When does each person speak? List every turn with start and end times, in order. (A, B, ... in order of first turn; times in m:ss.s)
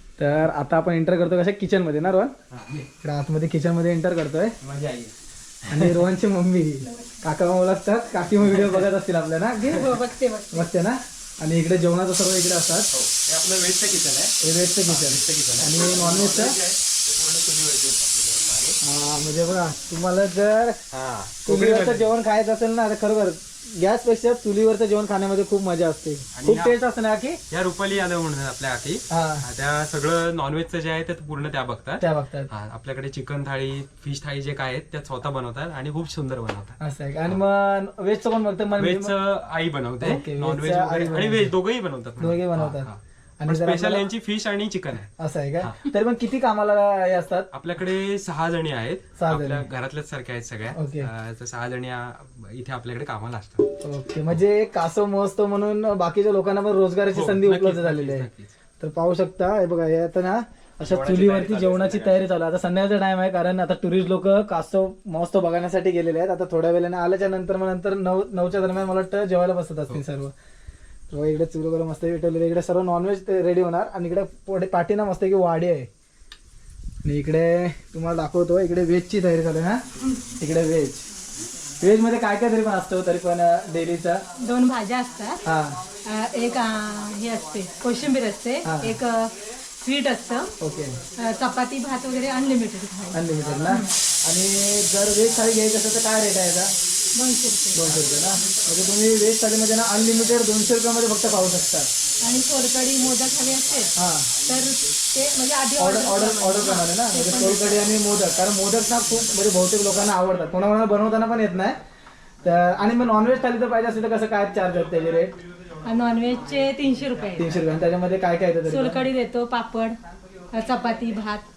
0:00.2-0:02.4 A
0:02.5-0:02.9 B
0:03.0-0:04.6 A
0:04.6-0:06.1 B
0:05.7-0:09.9 A
0:08.6-0:08.8 B
0:09.6-0:10.7 C
0:10.5-0:12.9 A
0:12.9-0:18.8 B
0:14.4-0:16.6 A
0:18.8-0:20.8 A
0:20.9-0:22.1 B
0:21.4-0:27.4 A
0:26.4-0:26.8 B
0:27.5-0:36.8 B
0:29.1-0:29.5 A
0:32.0-0:32.5 A
0:36.8-0:39.2 A
0:38.8-0:45.8 B
0:40.0-0:41.5 A
0:42.2-0:44.0 A
0:45.2-0:47.5 A
0:47.5-0:53.7 B
0:49.2-0:49.7 A
0:50.7-0:51.1 A
0:53.8-0:58.3 A
0:57.1-0:58.5 B
0:58.8-1:10.3 A
1:00.8-1:02.3 B
1:11.1-1:15.9 A
1:17.0-1:19.8 A
1:20.4-1:21.1 A
1:21.8-1:24.2 A
1:24.4-1:25.4 C
1:25.4-1:25.8 A
1:26.0-1:30.5 C
1:28.6-1:29.0 A
1:30.6-1:31.0 A
1:31.2-1:33.9 C
1:33.1-1:36.7 A
1:37.2-1:38.0 C
1:37.7-1:41.9 A
1:42.2-1:47.9 C
1:44.0-1:44.3 A
1:45.8-1:51.8 A
1:52.4-1:55.4 A
1:55.8-1:57.6 C
1:57.4-1:59.0 A
1:58.7-2:00.0 C
2:00.5-2:01.5 C